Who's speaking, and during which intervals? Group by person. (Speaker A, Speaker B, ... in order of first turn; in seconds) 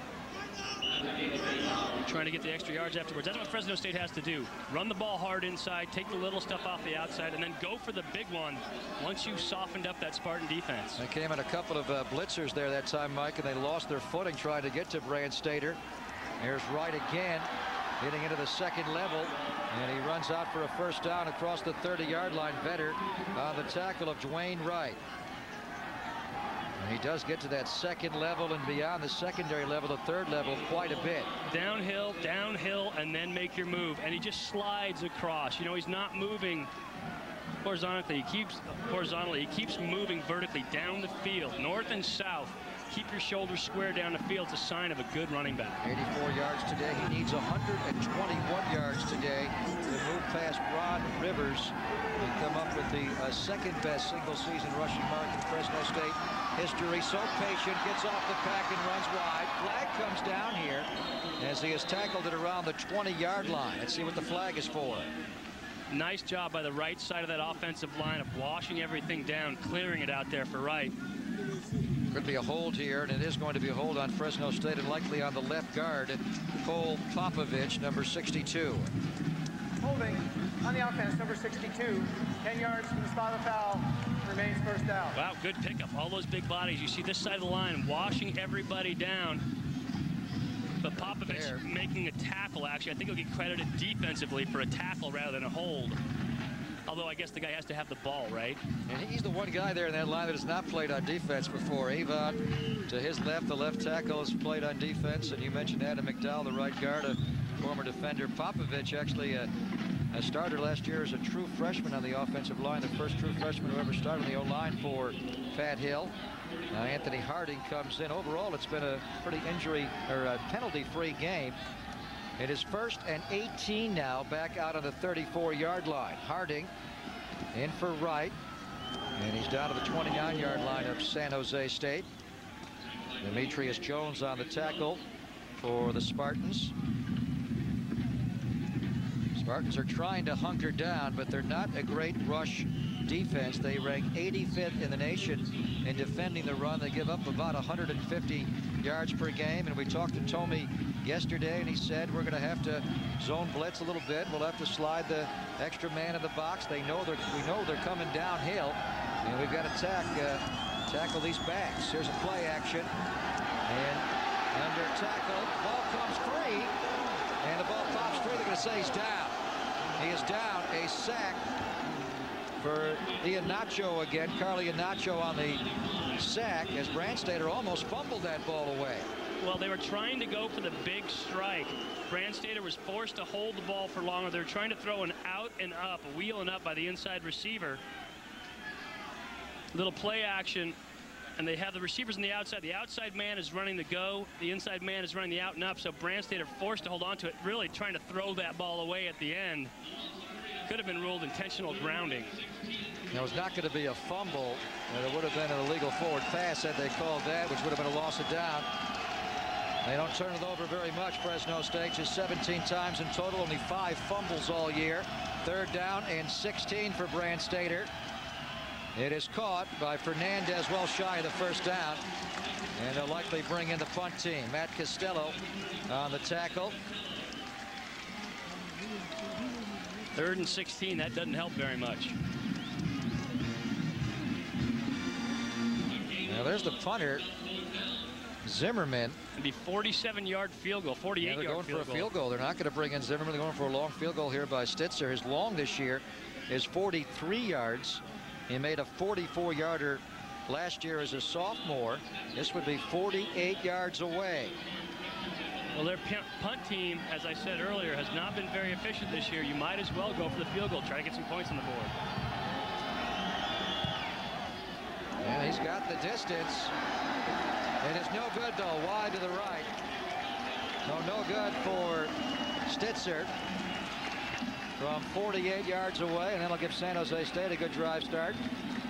Speaker A: 2.0-11.0, 31.5-36.7, 37.6-45.8, 65.9-70.9, 85.1-89.4, 90.8-96.0, 96.9-98.6, 179.4-187.8, 189.7-190.8, 191.4-199.7, 200.7-202.3, 230.2-232.1, 239.3-242.1, 255.7-261.9
Speaker B: 10.9-15.8, 16.4-17.5, 18.0-25.0, 26.8-31.3, 45.8-60.9, 61.4-65.1, 72.1-78.9, 90.9-91.6, 98.9-109.5, 110.1-116.1, 116.7-121.6, 122.4-126.7, 127.5-128.3, 129.2-132.1, 133.2-135.0, 135.6-136.7, 139.3-162.9, 163.7-166.7, 167.4-169.3, 170.0-171.4, 172.6-179.1, 203.1-208.7, 209.8-217.9, 218.9-222.0, 222.8-226.8, 236.2-237.3, 238.4-239.2, 241.2-254.6, 265.2-266.7, 267.8-269.7, 270.9-272.1, 272.6-273.3, 274.8-278.4
Speaker C: 79.8-85.2